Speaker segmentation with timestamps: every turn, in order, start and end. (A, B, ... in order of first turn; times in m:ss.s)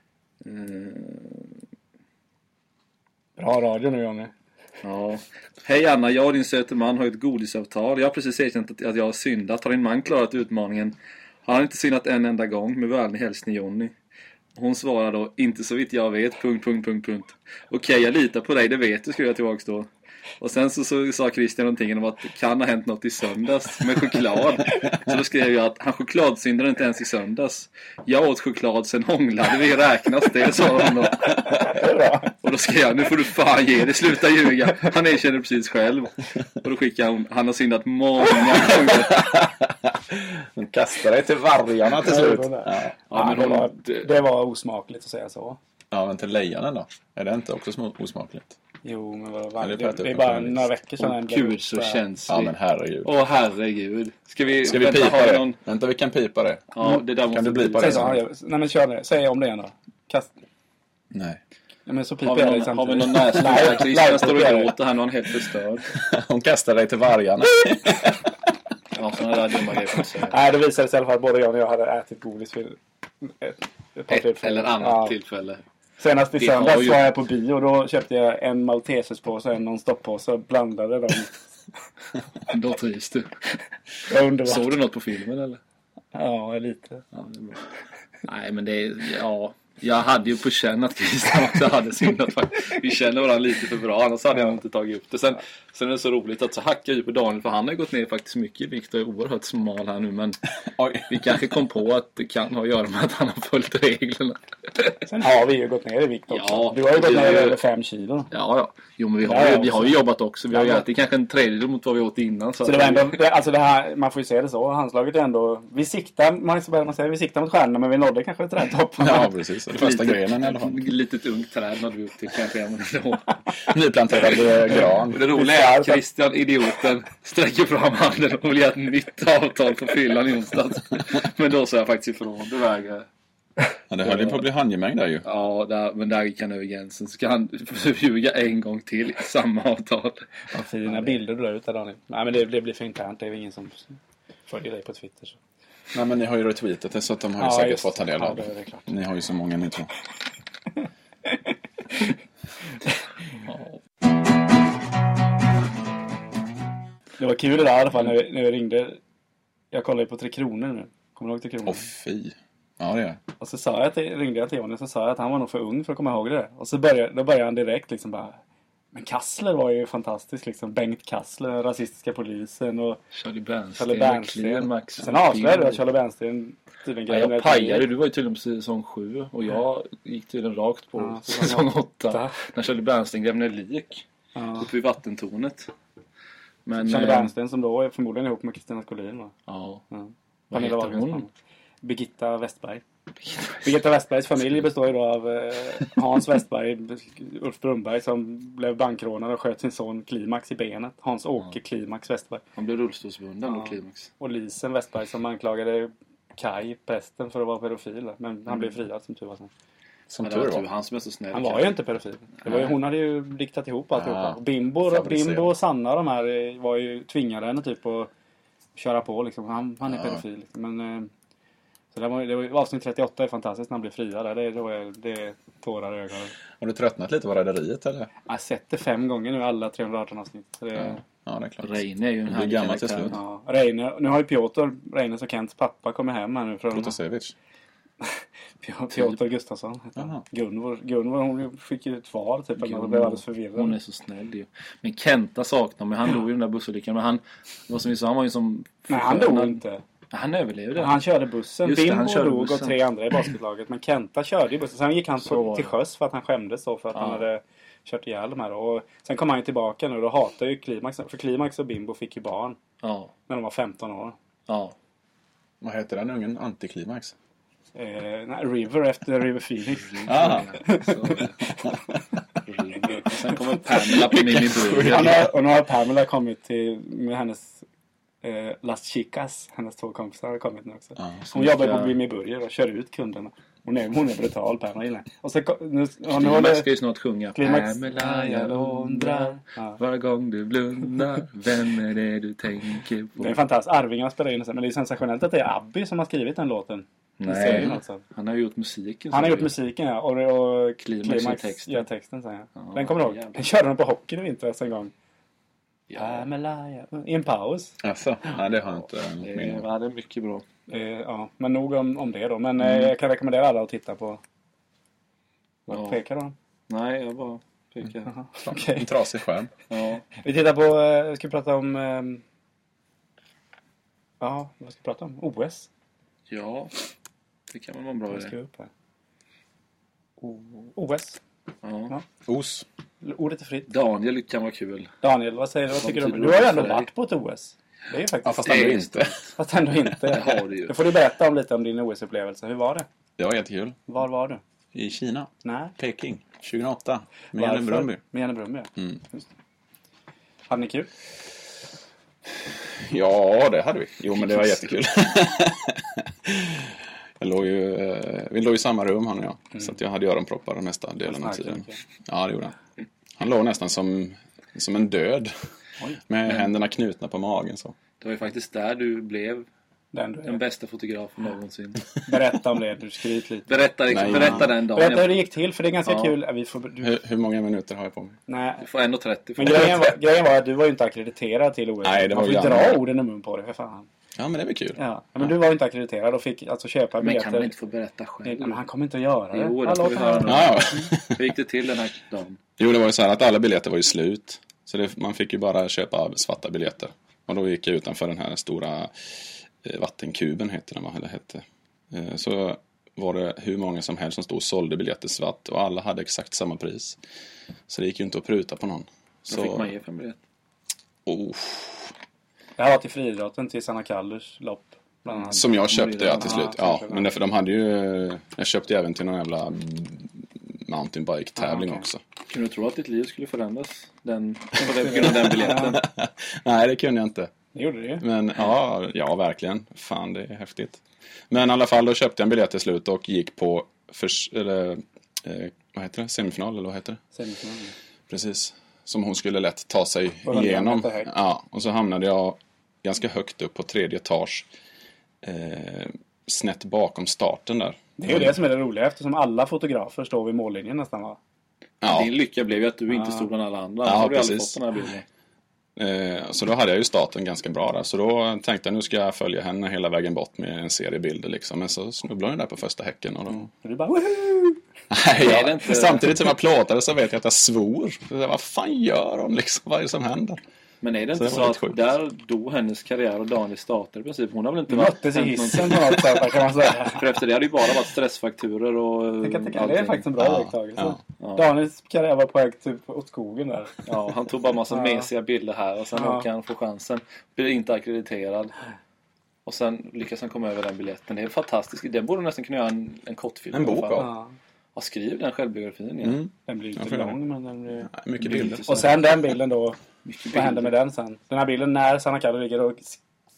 0:00.4-0:01.5 A
0:03.4-0:04.3 B
0:04.8-0:13.9 A
0:14.5-0:19.9 A
0:20.4-0:31.4 A
0:31.5-0:32.3 B
0:32.4-0:39.4 A
0:38.8-0:43.0 C
0:42.0-0:45.6 B
0:43.1-0:44.1 A
0:45.9-0:48.5 C
0:48.8-0:52.0 B
0:49.6-0:50.7 C
0:51.0-0:55.6 A
0:52.3-0:53.1 C
0:54.6-0:58.2 C
0:56.7-0:58.1 A
0:57.8-1:00.3 B
1:01.1-1:01.4 C
1:01.9-1:04.7 B
1:02.2-1:05.9 A
1:05.9-1:08.3 C
1:08.9-1:10.4 A
1:10.2-1:15.2 B
1:14.1-1:15.6 A
1:16.0-1:21.3 B
1:16.4-1:17.1 A
1:22.5-1:23.4 A
1:24.1-1:24.7 B
1:24.4-1:25.6 A
1:26.1-1:27.0 B
1:27.1-1:27.6 A
1:28.2-1:40.4 A
1:40.7-1:41.3 C
1:41.1-1:45.0 A
1:45.0-1:48.3 B
1:46.3-1:47.6 A
1:48.3-1:53.2 A
1:49.2-1:50.0 B
1:50.5-1:50.8 B
1:52.6-1:59.4 B
1:59.0-2:00.8 C
1:59.8-2:03.3 A
2:03.7-2:05.2 C
2:04.8-2:06.0 B
2:05.0-2:13.1 A
2:13.9-2:15.2 C
2:14.0-2:14.4 A
2:15.2-2:21.2 A
2:20.5-2:25.4 B
2:25.9-2:29.9 C
2:27.4-2:28.9 B
2:33.5-2:33.8 A
2:37.2-2:39.0 B
2:39.7-2:41.8 B
2:41.6-2:43.2 C
2:43.4-2:48.4 B
2:48.9-2:53.0 B
2:53.1-2:55.8 A
2:53.8-2:57.9 B
2:57.1-3:04.0 A
3:01.0-3:02.4 B
3:04.4-3:04.7 B
3:04.6-3:05.7 A
3:06.6-3:07.3 A
3:06.8-3:09.3 B
3:09.5-3:09.8 A
3:09.9-3:11.3 B
3:10.5-3:11.2 A
3:11.8-3:12.8 B
3:13.2-3:13.8 A
3:13.6-3:22.4 B
3:22.6-3:24.1 A
3:23.4-3:29.5 B
3:30.1-3:30.6 C
3:30.2-3:31.8 A
3:31.3-3:38.1 B
3:32.4-3:32.7 A
3:34.0-3:35.5 C
3:38.8-3:41.1 B
3:39.9-3:40.2 C
3:41.9-3:46.3 B
3:46.6-3:48.1 C
3:48.2-3:51.0 B
3:50.7-3:53.2 C
3:51.6-3:53.2 A
3:53.1-3:57.0 B
3:56.7-3:57.3 C
3:58.0-4:03.8 B
4:00.0-4:00.2 C
4:02.6-4:11.0 A
4:08.9-4:09.8 B
4:10.8-4:22.6 B
4:11.6-4:12.8 A
4:15.2-4:15.7 A
4:16.9-4:17.2 A
4:22.8-4:23.1 A
4:23.3-4:24.2 B
4:24.5-4:24.7 A
4:25.6-4:27.1 C
4:27.8-4:31.7 B
4:29.8-4:31.4 A
4:30.1-4:30.5 C
4:32.4-4:35.2 A
4:33.8-4:35.2 C
4:34.7-4:37.6 B
4:38.2-4:46.7 B
4:41.0-4:41.3 C
4:41.3-4:42.0 A
4:46.1-4:53.4 A
4:47.3-4:49.8 B
4:53.2-4:58.0 B
4:57.2-4:59.5 A
4:59.1-5:04.9 B
5:00.8-5:01.8 A
5:02.6-5:03.4 A
5:05.9-5:06.2 A
5:06.0-5:07.8 B
5:07.8-5:09.6 C
5:09.2-5:10.4 A
5:10.7-5:14.2 B
5:15.7-5:16.3 B
5:15.7-5:16.0 A
5:16.7-5:18.1 A
5:18.1-5:18.9 B
5:18.4-5:19.5 C
5:19.7-5:20.0 A
5:20.2-5:22.2 B
5:24.2-5:25.7 B
5:26.3-5:26.7 A
5:27.5-5:28.3 A
5:28.1-5:28.7 B
5:30.2-5:31.2 B
5:31.6-5:31.9 A
5:32.2-5:32.6 C
5:33.0-5:33.7 B
5:33.7-5:34.9 A
5:35.0-5:38.8 B
5:35.7-5:36.9 A
5:38.2-5:39.1 C
5:38.4-5:39.3 A
5:39.4-5:42.8 B
5:40.0-5:40.8 A
5:43.2-5:43.8 C
5:43.9-5:44.4 B
5:44.7-5:48.0 C
5:45.4-5:45.7 B
5:47.3-5:49.2 B
5:48.8-5:49.0 C
5:50.5-5:50.9 B
5:52.6-6:02.5 C
6:01.0-6:01.8 B
6:03.2-6:05.3 C
6:06.1-6:07.8 C
6:08.0-6:09.5 A
6:09.9-6:10.4 B
6:10.2-6:11.8 A
6:12.1-6:16.9 B
6:13.5-6:15.2 A
6:13.9-6:14.5 C
6:15.8-6:16.1 A
6:16.8-6:18.2 C
6:18.3-6:18.6 B
6:18.6-6:19.9 A
6:19.4-6:23.9 B
6:21.8-6:22.8 C
6:24.2-6:25.3 C
6:24.8-6:27.5 B
6:27.0-6:28.6 A
6:28.2-6:30.9 B
6:29.3-6:32.4 A
6:30.2-6:31.3 C
6:32.6-6:39.1 C
6:39.6-6:47.0 C
6:47.7-6:49.7 C
6:49.3-6:50.2 A
6:51.0-6:51.9 C
6:52.6-6:57.1 B
6:55.3-6:56.5 A
6:55.3-7:02.0 C
7:01.4-7:01.8 B
7:02.3-7:05.8 A
7:04.6-7:05.8 B
7:05.3-7:07.3 C
7:07.5-7:08.0 B
7:08.0-7:17.0 C
7:17.1-7:17.7 B
7:18.1-7:24.5 C
7:20.2-7:21.1 B
7:25.2-7:28.3 C
7:28.0-7:31.2 B
7:31.8-7:32.1 C
7:31.8-7:35.0 A
7:32.9-7:33.3 B
7:33.8-7:34.6 C
7:35.8-7:43.5 C
7:43.3-7:44.6 B
7:44.9-7:50.4 C
7:45.1-7:46.1 A
7:50.8-7:56.3 A
7:51.1-7:51.8 C
7:54.7-7:57.0 B
7:56.9-8:00.0 A
7:59.2-8:03.8 B
8:00.2-8:01.0 C
8:01.2-8:01.4 A
8:03.8-8:08.5 A
8:04.7-8:05.1 B
8:05.9-8:06.2 B
8:09.4-8:14.1 A
8:13.5-8:14.1 C
8:14.0-8:14.3 B
8:14.7-8:16.2 A
8:16.0-8:17.2 C
8:16.5-8:19.8 B
8:17.8-8:18.6 C
8:18.2-8:19.0 A
8:20.0-8:20.7 A
8:20.3-8:23.0 B